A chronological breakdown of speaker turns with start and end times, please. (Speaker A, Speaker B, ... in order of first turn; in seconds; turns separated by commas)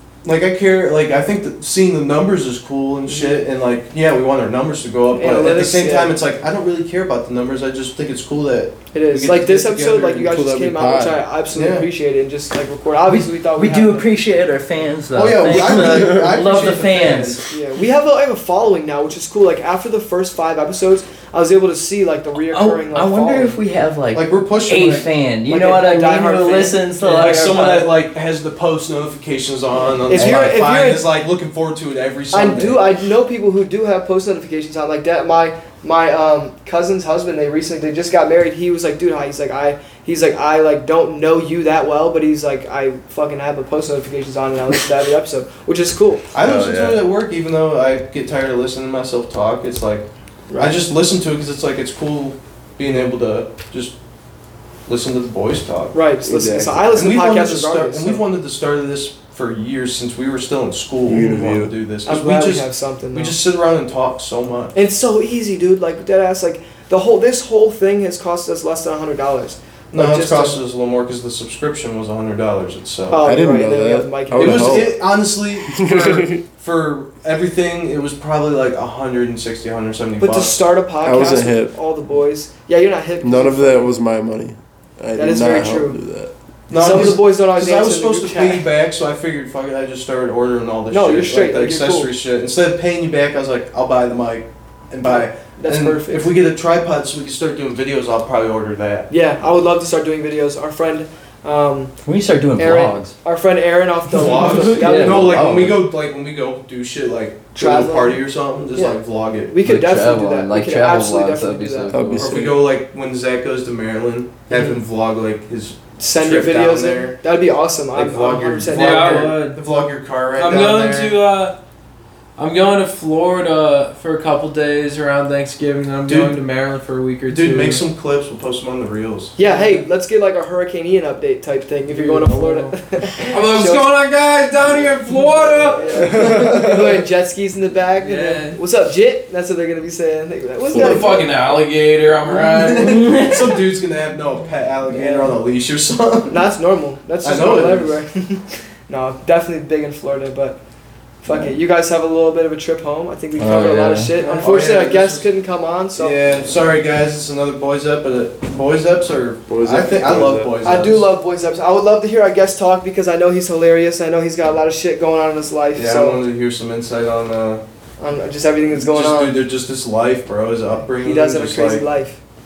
Speaker A: 0.2-10.3, Speaker B: 3.1-3.4, Speaker B: 5.1-6.1, Speaker B: 8.9-14.1, Speaker C: 10.2-11.2, Speaker A: 11.5-11.9, Speaker D: 13.1-17.4, Speaker A: 15.1-17.4, Speaker C: 15.7-16.0, Speaker B: 17.5-23.6, Speaker D: 22.5-27.9, Speaker A: 24.1-25.1, Speaker B: 25.5-26.8, Speaker A: 27.0-32.9, Speaker B: 29.7-31.1, Speaker D: 30.1-30.7, Speaker B: 32.3-46.2, Speaker A: 46.3-50.1, Speaker C: 46.4-47.1, Speaker B: 50.5-50.8, Speaker A: 50.6-54.0, Speaker A: 54.9-56.0, Speaker B: 55.9-58.2, Speaker C: 56.2-57.0, Speaker A: 56.9-64.8, Speaker C: 61.0-61.7, Speaker B: 62.1-63.3, Speaker B: 64.7-70.6, Speaker A: 69.9-73.2, Speaker B: 73.1-75.0, Speaker C: 73.2-75.0, Speaker A: 74.3-80.6, Speaker C: 75.7-76.4, Speaker B: 80.2-83.9, Speaker C: 81.0-81.7, Speaker C: 83.2-86.3, Speaker B: 85.2-86.0, Speaker A: 86.7-99.1, Speaker B: 86.7-88.7, Speaker B: 90.9-92.1, Speaker B: 95.1-96.3, Speaker B: 99.1-101.9, Speaker D: 102.0-103.2, Speaker B: 102.6-105.4, Speaker A: 104.1-109.6, Speaker D: 104.4-105.8, Speaker B: 107.5-108.2, Speaker B: 108.8-111.9, Speaker D: 109.6-112.5, Speaker C: 111.9-112.6, Speaker A: 112.2-117.2, Speaker B: 114.5-114.8, Speaker B: 116.0-119.4, Speaker A: 117.9-121.2, Speaker E: 118.7-119.6, Speaker E: 120.4-121.6, Speaker E: 122.4-127.8, Speaker A: 126.1-126.4, Speaker A: 127.3-129.4, Speaker B: 129.4-133.9, Speaker E: 129.4-129.8, Speaker E: 132.0-132.7, Speaker E: 133.3-136.3, Speaker B: 135.6-141.3, Speaker C: 136.2-136.6, Speaker E: 138.0-138.6, Speaker E: 140.7-143.2, Speaker A: 140.7-141.0, Speaker A: 142.4-146.4, Speaker D: 142.8-143.7, Speaker B: 144.9-145.4, Speaker B: 146.3-150.6, Speaker A: 147.2-148.0, Speaker B: 151.2-156.2, Speaker D: 153.4-154.2, Speaker E: 154.2-154.7, Speaker A: 154.4-155.3, Speaker A: 156.0-161.1, Speaker C: 159.5-160.8, Speaker B: 160.6-166.2, Speaker A: 165.8-167.6, Speaker B: 168.0-169.4, Speaker A: 168.8-171.9, Speaker B: 171.0-172.2